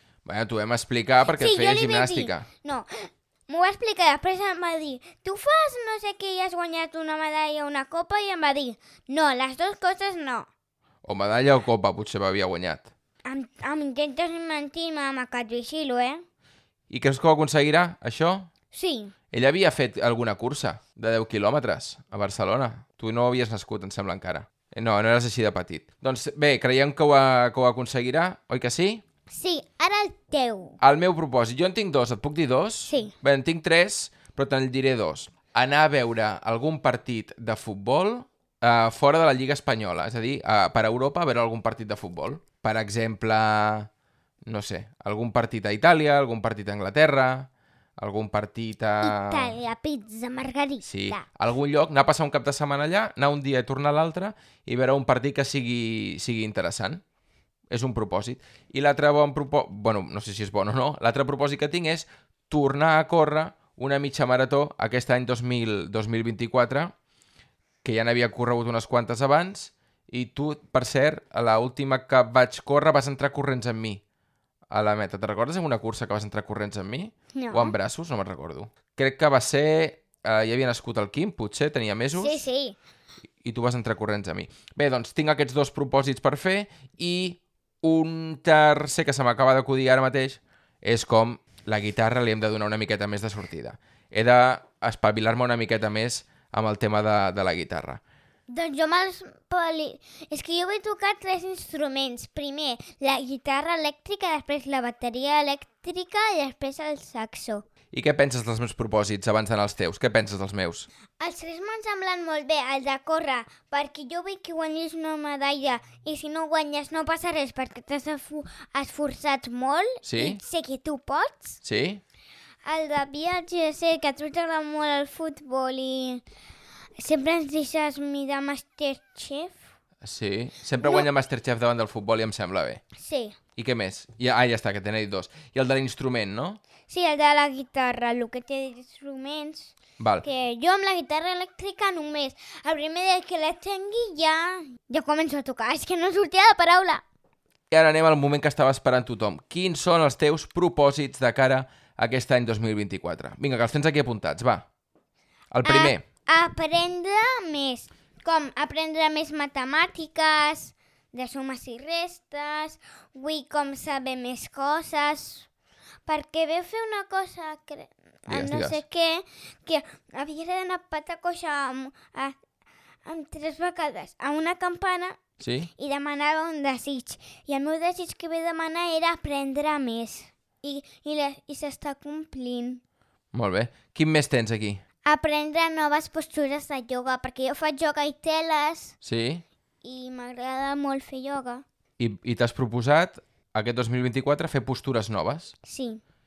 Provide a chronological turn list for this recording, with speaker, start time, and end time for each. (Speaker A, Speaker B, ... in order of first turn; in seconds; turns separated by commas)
Speaker A: 0.2-2.5, Speaker B: 1.3-10.5, Speaker A: 11.0-12.9, Speaker B: 13.2-16.2, Speaker A: 16.9-18.5, Speaker B: 18.7-19.1, Speaker A: 19.3-29.0, Speaker B: 29.3-30.8, Speaker A: 30.8-43.9, Speaker B: 32.9-33.1, Speaker A: 44.5-49.6, Speaker B: 49.0-51.3, Speaker A: 50.8-57.0, Speaker A: 57.7-66.9, Speaker A: 67.8-74.0, Speaker A: 74.7-82.4, Speaker B: 77.3-77.8, Speaker B: 82.2-82.8, Speaker A: 83.4-98.0, Speaker B: 98.5-107.7, Speaker A: 107.9-110.9, Speaker B: 111.2-121.6, Speaker A: 120.0-120.4, Speaker A: 121.6-122.0, Speaker B: 122.7-126.2, Speaker B: 127.0-129.6, Speaker A: 130.0-132.8, Speaker B: 130.8-131.1, Speaker B: 133.0-133.4, Speaker A: 133.6-136.6, Speaker B: 136.9-147.0, Speaker A: 140.0-140.3, Speaker A: 147.7-154.7, Speaker A: 155.5-156.0, Speaker B: 155.6-165.5, Speaker B: 166.1-172.4, Speaker A: 168.3-168.8, Speaker B: 173.1-175.2, Speaker A: 175.4-175.7, Speaker B: 175.8-182.8, Speaker A: 183.3-184.8, Speaker B: 185.1-188.9, Speaker A: 189.0-189.4, Speaker B: 189.8-191.6, Speaker A: 192.0-195.5, Speaker B: 195.6-196.0